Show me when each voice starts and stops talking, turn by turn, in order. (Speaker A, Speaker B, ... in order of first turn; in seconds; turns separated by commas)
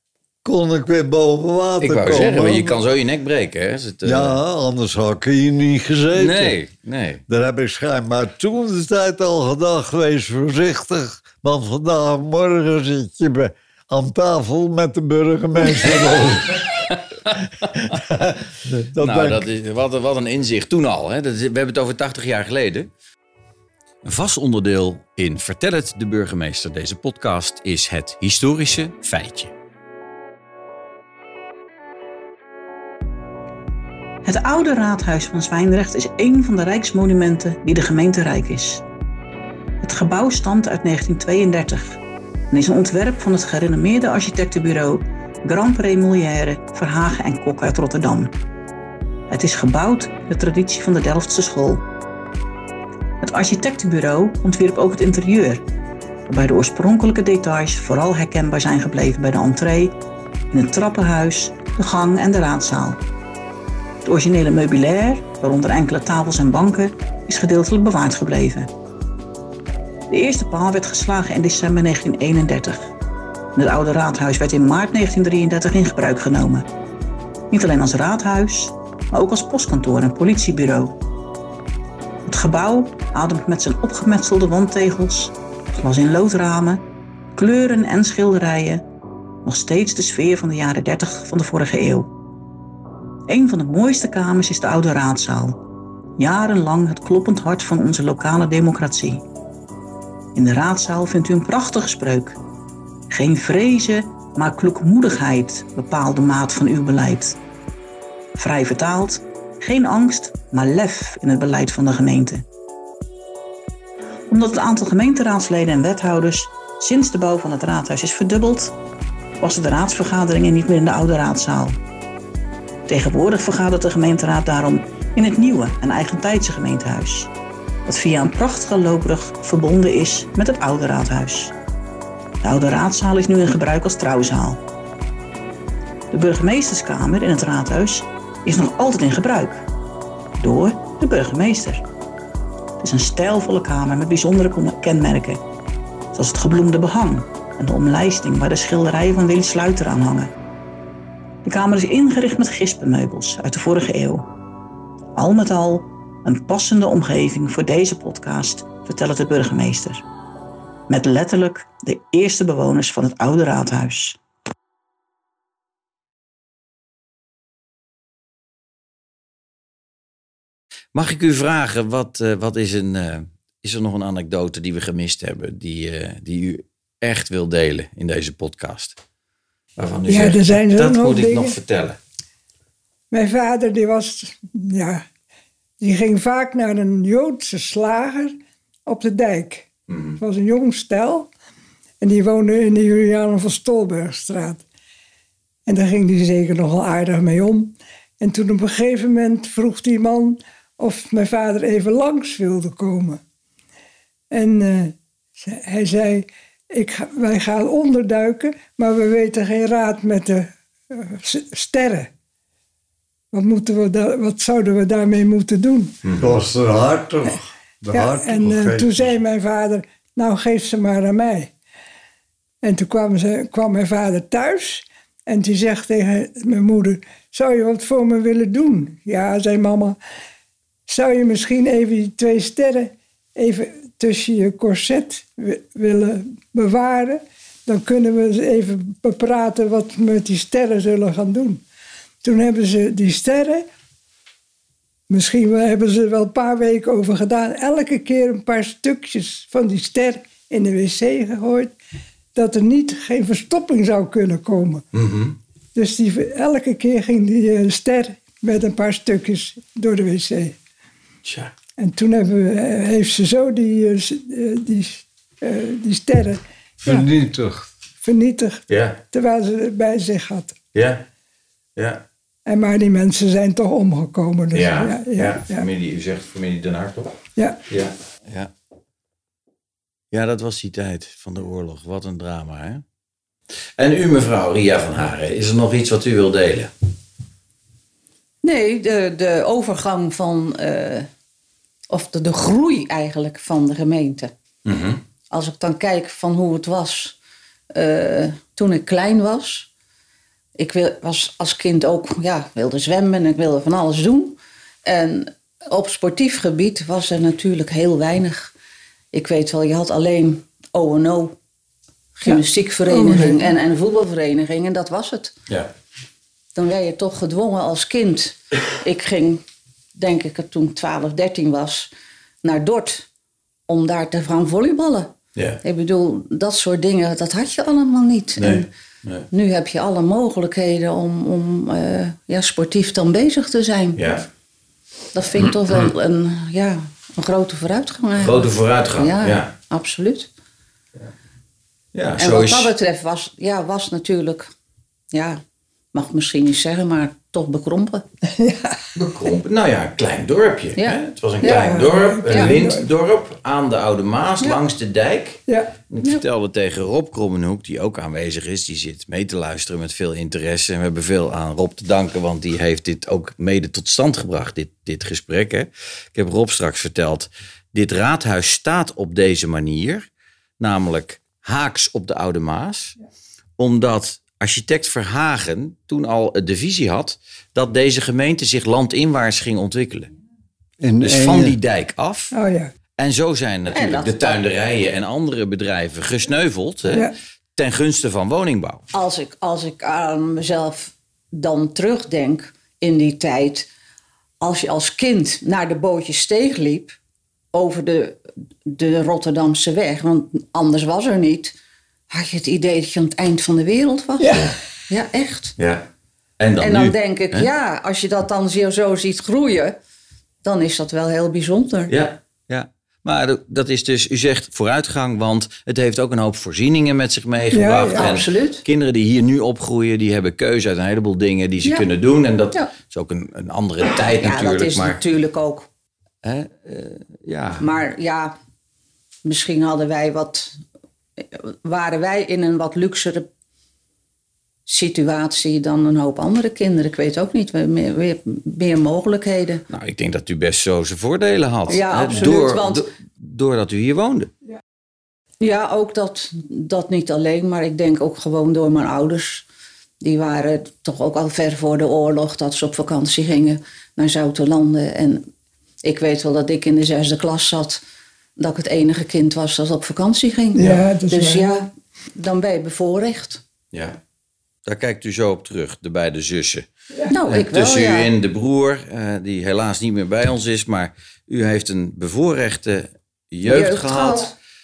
Speaker A: 0.4-2.8, Speaker B: 1.8-4.4, Speaker A: 4.0-6.6, Speaker B: 6.2-7.2, Speaker A: 7.3-16.9, Speaker B: 16.9-17.4, Speaker A: 17.7-19.5, Speaker B: 19.0-22.9, Speaker B: 24.0-29.5, Speaker C: 34.2-38.8, Speaker C: 39.8-42.0, Speaker C: 42.5-48.3, Speaker C: 49.3-51.8, Speaker C: 53.2-55.6, Speaker C: 56.3-60.0, Speaker C: 60.5-63.0, Speaker C: 64.0-68.7, Speaker C: 70.1-72.9, Speaker C: 73.5-76.7, Speaker C: 77.5-81.0, Speaker C: 82.2-86.8, Speaker C: 87.3-88.8, Speaker C: 89.5-92.1, Speaker C: 93.3-95.6, Speaker C: 96.2-99.2, Speaker C: 100.3-102.4, Speaker C: 103.1-107.4, Speaker C: 108.4-112.5, Speaker C: 114.3-118.7, Speaker C: 119.4-121.8, Speaker C: 122.9-127.3, Speaker C: 127.9-131.5, Speaker C: 132.4-134.6, Speaker C: 136.1-139.6, Speaker C: 140.4-141.8, Speaker C: 142.8-145.4, Speaker C: 146.1-150.3, Speaker C: 151.4-154.3, Speaker C: 155.2-160.1, Speaker C: 160.9-164.2, Speaker B: 170.9-179.0, Speaker B: 179.8-182.0, Speaker D: 180.1-181.6, Speaker D: 183.1-185.1, Speaker D: 185.8-191.3, Speaker B: 189.9-190.2, Speaker D: 192.0-194.6, Speaker D: 195.7-203.2, Speaker D: 204.3-212.1, Speaker D: 213.3-216.0, Speaker B: 216.0-216.3, Speaker A: 216.2-219.2, Speaker D: 217.9-221.5, Speaker D: 222.6-230.0, Speaker D: 230.9-241.6, Speaker D: 242.2-243.7, Speaker D: 245.1-251.8, Speaker D: 252.3-254.8, Speaker B: 254.9-255.4, Speaker D: 255.8-260.6, Speaker B: 261.2-261.5, Speaker D: 261.8-267.1, Speaker A: 266.8-267.7, Speaker D: 268.0-270.6, Speaker B: 268.7-269.0, Speaker B: 270.7-271.1, Speaker B: 271.8-272.0, Speaker D: 272.5-275.6, Speaker B: 274.5-277.2, Speaker B: 277.7-278.5, Speaker B: 280.1-282.8, Speaker B: 283.8-286.7, Speaker E: 288.4-291.1, Speaker E: 291.9-294.3, Speaker B: 294.6-295.0, Speaker E: 295.3-297.2, Speaker E: 297.7-299.7, Speaker E: 300.6-308.5, Speaker E: 309.1-311.4, Speaker E: 312.1-315.4, Speaker D: 312.3-313.5, Speaker E: 316.6-319.4, Speaker E: 319.9-321.9, Speaker E: 322.4-323.1, Speaker E: 323.7-328.7, Speaker B: 328.4-329.3, Speaker E: 329.3-334.0, Speaker B: 334.0-334.3, Speaker E: 335.1-340.3, Speaker B: 338.2-339.5, Speaker B: 341.9-342.7, Speaker E: 342.2-344.5, Speaker E: 345.1-345.4, Speaker E: 345.9-348.1, Speaker D: 348.4-348.8, Speaker B: 348.9-370.1, Speaker E: 350.8-352.6, Speaker D: 351.4-352.9, Speaker D: 355.5-355.7, Speaker B: 370.6-373.0, Speaker B: 373.6-380.1, Speaker A: 380.8-381.6, Speaker B: 381.0-382.4, Speaker D: 382.3-382.7, Speaker B: 383.0-388.9, Speaker E: 383.7-384.4, Speaker E: 388.9-393.7, Speaker E: 394.4-397.0, Speaker E: 397.5-401.6, Speaker E: 402.1-405.6, Speaker B: 405.6-405.9, Speaker B: 406.4-407.5, Speaker E: 406.6-409.8, Speaker E: 410.4-411.9, Speaker B: 411.9-425.0, Speaker D: 417.5-418.1, Speaker E: 417.9-418.6, Speaker E: 424.1-425.7, Speaker B: 426.2-427.6, Speaker E: 427.6-428.4, Speaker E: 429.2-430.6, Speaker E: 431.2-433.3, Speaker E: 434.7-439.6, Speaker B: 439.7-444.3, Speaker E: 441.7-442.9, Speaker E: 445.4-449.5, Speaker E: 450.0-455.3, Speaker E: 455.8-457.8, Speaker E: 458.4-463.4, Speaker D: 460.5-461.5, Speaker B: 463.7-464.0, Speaker B: 464.6-466.7, Speaker E: 467.1-468.1, Speaker B: 467.3-474.3, Speaker E: 473.4-474.3